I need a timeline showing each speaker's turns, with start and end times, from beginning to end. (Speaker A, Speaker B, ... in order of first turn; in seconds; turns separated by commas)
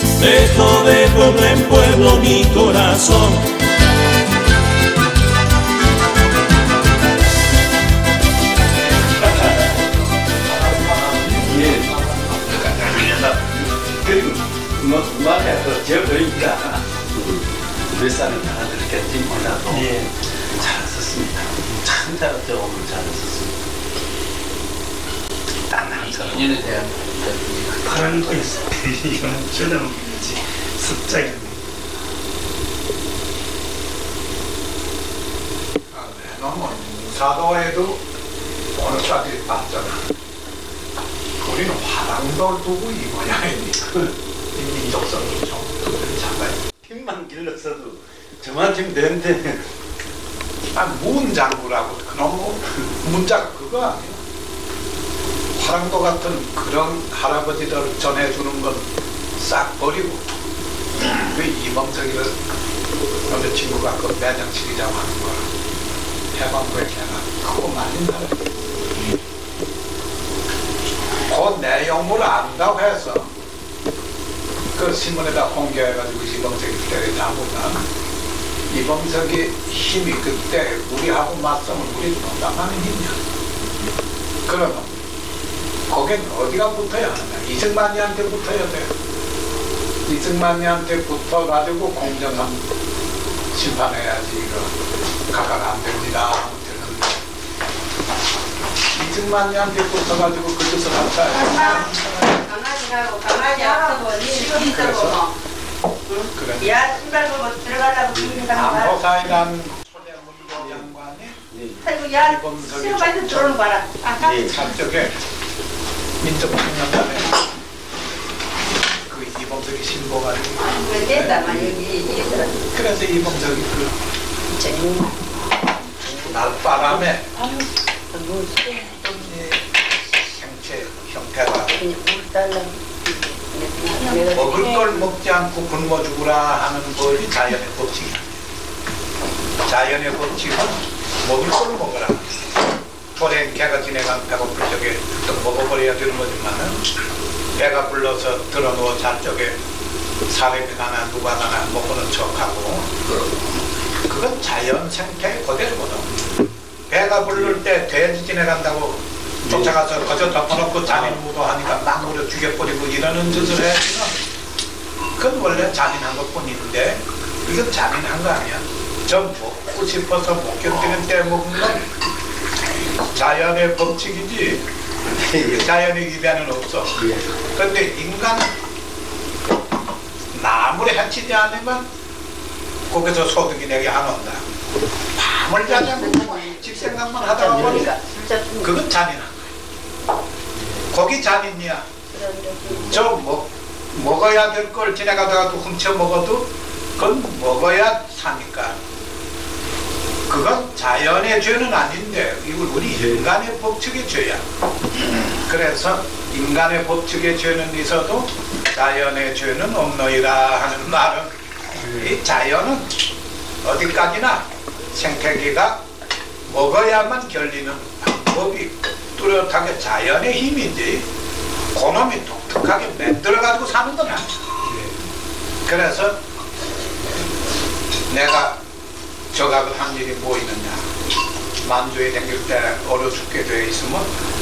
Speaker A: 0.2-3.5, Speaker B: 9.3-9.7, Speaker C: 10.5-12.3, Speaker B: 11.3-11.9, Speaker D: 12.4-13.4, Speaker B: 13.8-23.6, Speaker E: 19.7-20.0, Speaker B: 25.7-26.6, Speaker D: 25.7-28.6, Speaker E: 27.9-30.1, Speaker B: 29.3-30.2, Speaker E: 30.8-31.6, Speaker C: 35.9-38.0, Speaker C: 38.8-40.0, Speaker C: 41.4-46.6, Speaker B: 46.8-49.7, Speaker C: 50.7-54.2, Speaker C: 55.6-60.2, Speaker C: 61.0-62.4, Speaker C: 63.3-65.5, Speaker C: 66.3-68.4, Speaker C: 71.3-73.3, Speaker C: 74.8-77.8, Speaker C: 78.7-83.2, Speaker C: 84.5-84.9, Speaker C: 85.9-88.9, Speaker C: 90.1-92.7, Speaker C: 93.5-94.7, Speaker C: 95.3-97.2, Speaker C: 98.9-101.9, Speaker F: 101.3-105.3, Speaker C: 104.7-105.2, Speaker F: 106.1-109.0, Speaker C: 106.3-107.2, Speaker B: 108.1-108.5, Speaker C: 108.5-111.4, Speaker B: 110.6-110.9, Speaker B: 111.5-112.0, Speaker F: 111.8-114.5, Speaker C: 112.1-113.7, Speaker B: 114.2-114.6, Speaker C: 114.3-115.2, Speaker C: 116.2-117.4, Speaker C: 119.1-121.6, Speaker F: 120.6-122.6, Speaker B: 121.4-121.8, Speaker C: 122.7-124.0, Speaker F: 124.5-125.2, Speaker F: 125.9-129.1, Speaker C: 126.3-127.3, Speaker C: 129.1-131.8, Speaker F: 131.7-135.1, Speaker C: 134.3-138.4, Speaker C: 139.7-142.4, Speaker C: 143.2-146.8, Speaker C: 147.6-149.6, Speaker C: 150.3-152.9, Speaker D: 153.0-153.6, Speaker C: 154.1-156.1, Speaker C: 156.9-164.2, Speaker B: 157.3-157.6, Speaker B: 159.4-159.8, Speaker B: 160.9-161.2, Speaker C: 165.2-171.8, Speaker C: 173.1-174.7, Speaker B: 175.1-175.7, Speaker C: 175.5-178.5, Speaker B: 177.0-177.3, Speaker C: 180.3-181.8, Speaker C: 182.9-184.4, Speaker C: 185.2-187.9, Speaker F: 185.7-188.7, Speaker C: 188.6-189.5, Speaker C: 190.9-191.9, Speaker F: 192.1-192.9, Speaker B: 192.7-193.0, Speaker C: 192.9-198.8, Speaker C: 200.3-204.4, Speaker B: 202.9-203.3, Speaker C: 205.4-211.3, Speaker B: 211.8-212.2, Speaker C: 212.0-212.9, Speaker C: 213.6-215.8, Speaker C: 216.5-221.1, Speaker C: 221.7-224.9, Speaker C: 225.7-226.2, Speaker C: 228.1-228.6, Speaker C: 229.3-230.9, Speaker C: 231.6-234.1